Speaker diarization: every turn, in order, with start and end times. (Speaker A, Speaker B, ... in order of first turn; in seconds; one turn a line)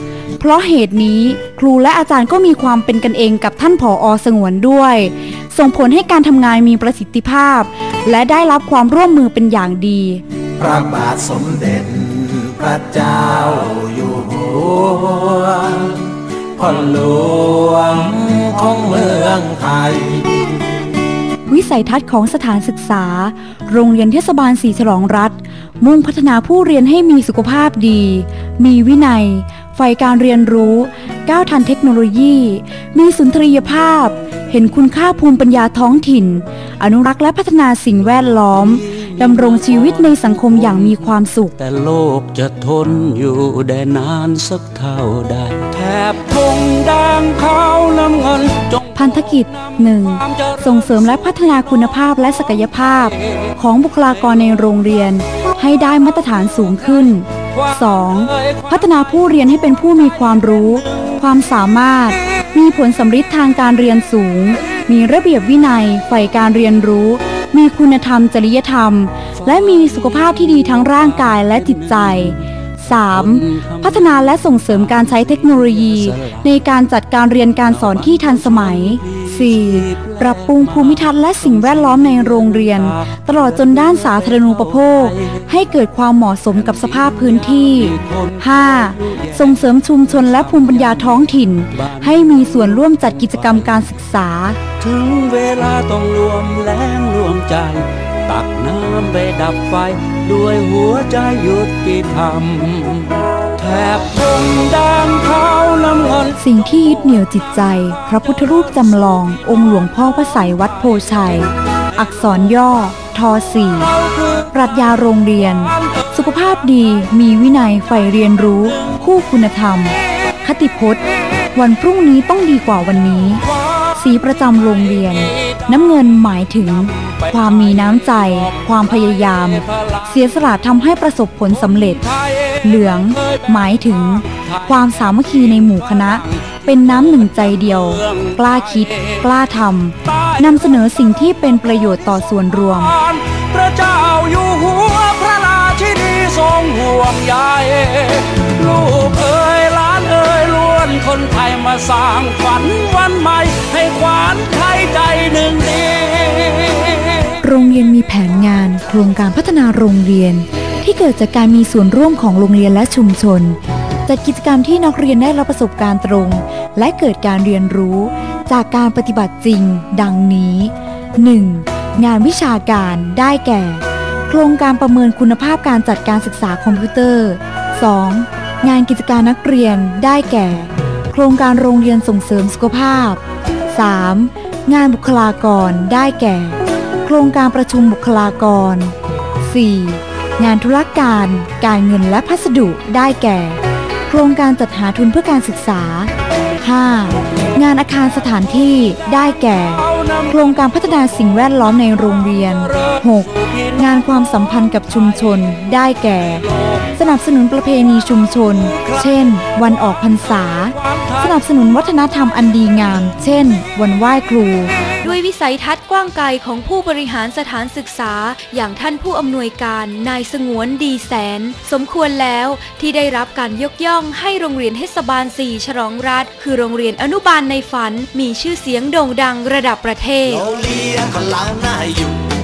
Speaker A: 0.4-10.2
Speaker B: 10.6-16.0
Speaker B: 16.6-20.3
Speaker A: 21.5-41.6
Speaker C: 38.9-40.2
Speaker C: 41.6-48.9
Speaker A: 48.9-94.6
Speaker C: 73.3-73.8
Speaker C: 75.5-76.3
Speaker C: 79.0-80.6
Speaker C: 82.5-82.9
Speaker C: 84.8-85.1
Speaker C: 87.5-88.4
Speaker C: 89.0-89.3
Speaker C: 94.8-106.3
Speaker A: 106.3-121.0
Speaker A: 121.5-142.9
Speaker C: 143.0-157.3
Speaker A: 157.4-183.2
Speaker A: 183.7-214.8
Speaker D: 215.0-230.4
Speaker E: 230.3-232.3